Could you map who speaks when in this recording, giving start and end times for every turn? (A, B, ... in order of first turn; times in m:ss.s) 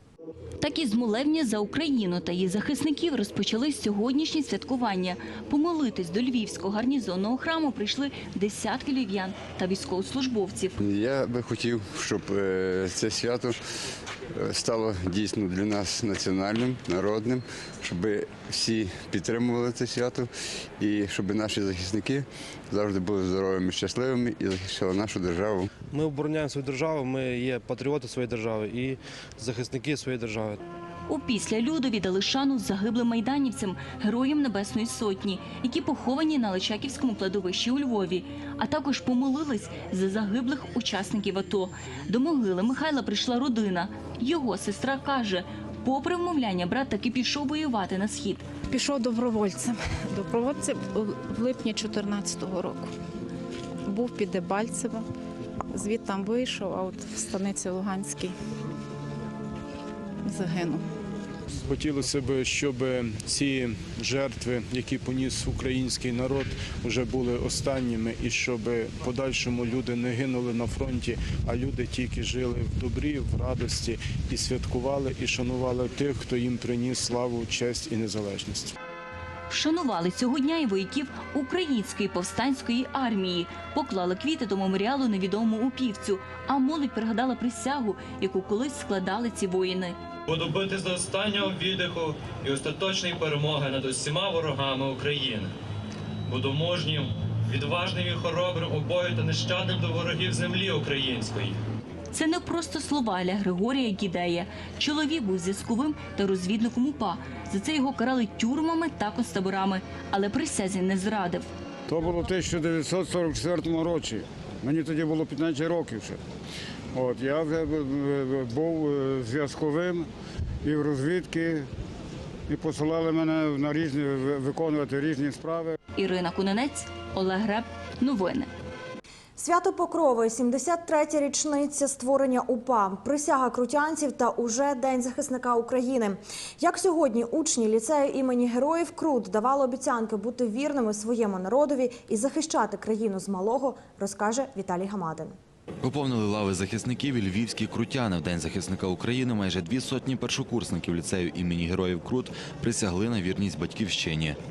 0:00.6-0:10.8 A
0:10.8-0:13.6 B
0:14.4-0:20.3 B
0:20.8-0:25.7 B
0:25.9-0:30.6 C
0:31.1-0:48.5 A
0:48.7-0:52.9 D
0:53.9-0:55.1 D
0:55.7-0:58.4 D
1:00.2-1:00.8 D
1:01.6-1:18.8 E
1:19.5-1:30.0 A
1:30.3-1:35.5 F
1:36.3-1:41.6 F
1:42.1-1:51.5 A
1:51.9-1:56.2 G
1:56.9-2:00.1 G
2:00.6-2:01.7 G
2:02.5-2:05.8 G
2:06.0-2:08.5 A
2:09.4-2:25.4 H
2:25.8-2:34.4 I